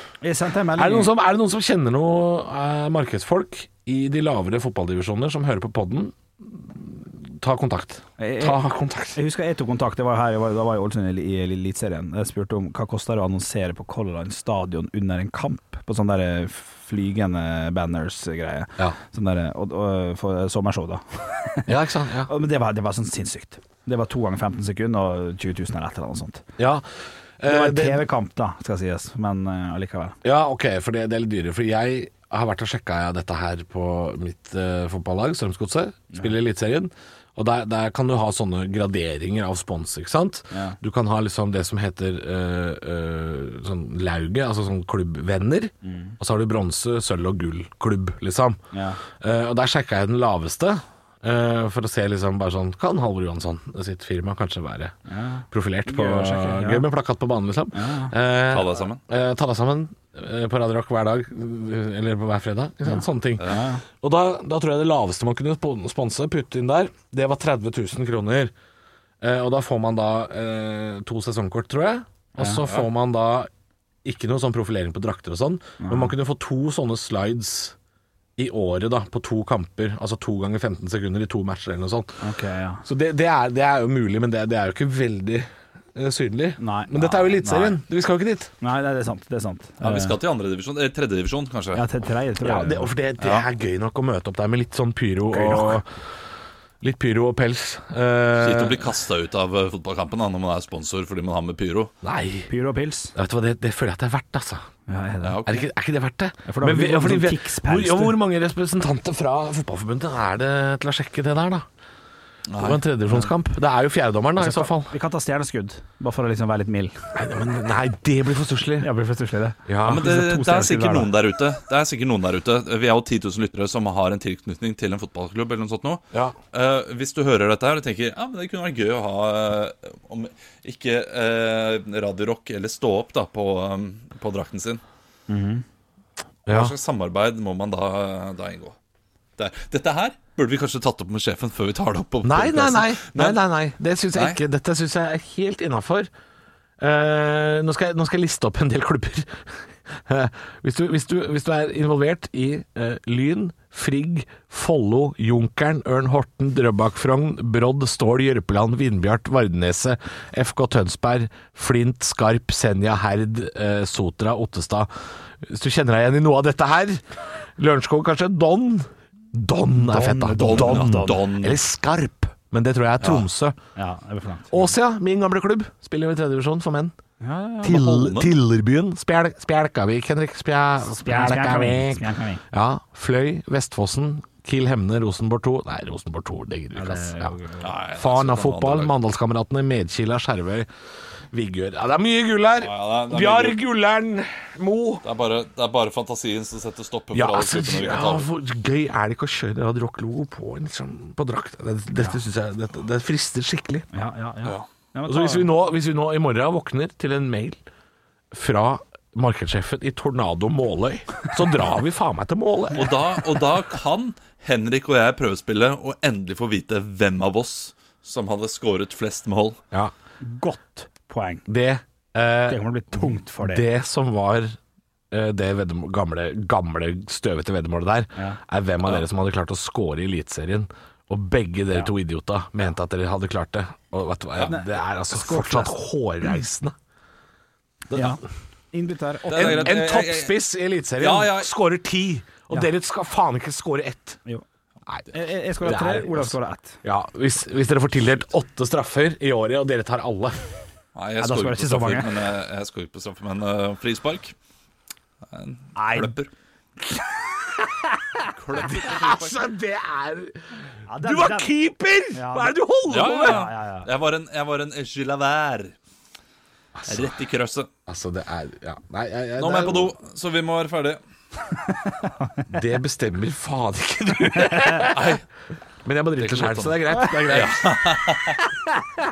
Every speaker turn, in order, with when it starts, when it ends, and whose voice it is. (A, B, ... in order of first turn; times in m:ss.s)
0:00.2-0:01.1 A
0:00.8-0:09.2 B
0:08.2-0:08.6 A
0:09.2-0:21.7 A
0:21.7-0:22.3 B
0:22.3-0:26.4 A
0:26.6-0:28.0 B
0:27.5-0:30.2 A
0:30.2-0:55.0 B
0:40.5-0:40.8 A
0:45.8-0:46.2 A
0:48.7-0:49.0 A
0:55.1-0:56.8 A
0:55.5-1:08.5 B
0:57.7-0:58.1 A
0:58.5-0:59.0 C
1:02.9-1:03.8 A
1:09.2-1:13.5 B
1:12.4-1:12.6 A
1:14.0-1:17.8 B
1:15.8-1:16.1 A
1:18.4-1:22.2 B
1:22.2-1:22.8 A
1:22.8-1:28.5 B
1:26.6-1:27.8 A
1:28.6-1:30.2 A
1:29.8-1:31.8 C
1:31.8-1:32.9 A
1:32.4-1:35.9 B
1:33.2-1:33.4 C
1:35.3-1:35.8 A
1:36.8-1:38.9 B
1:38.4-1:41.9 C
1:42.0-1:42.5 B
1:42.5-1:43.1 A
1:43.2-1:44.7 B
1:44.9-1:45.4 A
1:45.2-1:45.6 C
1:45.4-1:51.7 B
1:46.5-1:48.2 A
1:52.5-1:52.8 C
1:52.6-1:54.9 B
1:54.4-1:57.0 A
1:57.1-1:58.9 B
1:58.8-2:01.1 A
1:59.7-2:00.0 B
1:59.9-2:14.8 C
2:15.3-2:15.6 A
2:16.5-2:16.7 B
2:16.5-2:18.8 C
2:19.4-2:23.4 C
2:22.2-2:26.1 B
2:24.1-2:24.4 C
2:26.8-2:53.6 B
2:49.7-2:51.2 A
2:50.4-2:51.6 C
2:53.8-2:54.7 A
2:54.5-2:57.0 B
2:57.2-2:57.8 A
2:57.6-3:07.4 B
2:57.6-2:58.3 C
3:00.9-3:02.4 A
3:06.8-3:07.7 A
3:07.6-3:08.9 C
3:08.0-3:10.7 B
3:11.3-3:15.0 B
3:12.6-3:13.6 C
3:15.0-3:18.3 C
3:17.1-3:23.9 B
3:23.9-3:25.5 A
3:25.1-3:27.6 B
3:28.3-3:32.9 B
3:32.7-3:39.6 C
3:40.2-3:41.4 A
3:41.5-3:44.6 B
3:42.5-3:43.6 A
3:45.1-3:56.8 B
3:54.5-3:55.8 A
3:57.9-3:58.2 B
3:57.9-3:58.2 A
3:58.7-3:59.8 A
3:59.3-4:00.4 C
3:59.3-4:04.2 B
4:01.0-4:01.5 C
4:05.1-4:06.8 A
4:05.6-4:10.5 B
4:11.0-4:14.4 C
4:11.2-4:12.1 A
4:15.3-4:16.3 C
4:15.8-4:16.1 A
4:18.4-4:19.4 C
4:18.5-4:23.5 B
4:20.9-4:21.5 A
4:22.1-4:23.9 A
4:22.9-4:25.8 C
4:26.8-4:27.2 B
4:26.9-4:27.7 C
4:27.9-4:29.9 B
4:29.4-4:31.0 C
4:32.5-4:35.2 B
4:34.5-4:34.8 A
4:34.9-4:35.2 C
4:35.8-4:38.2 B
4:36.2-4:38.4 C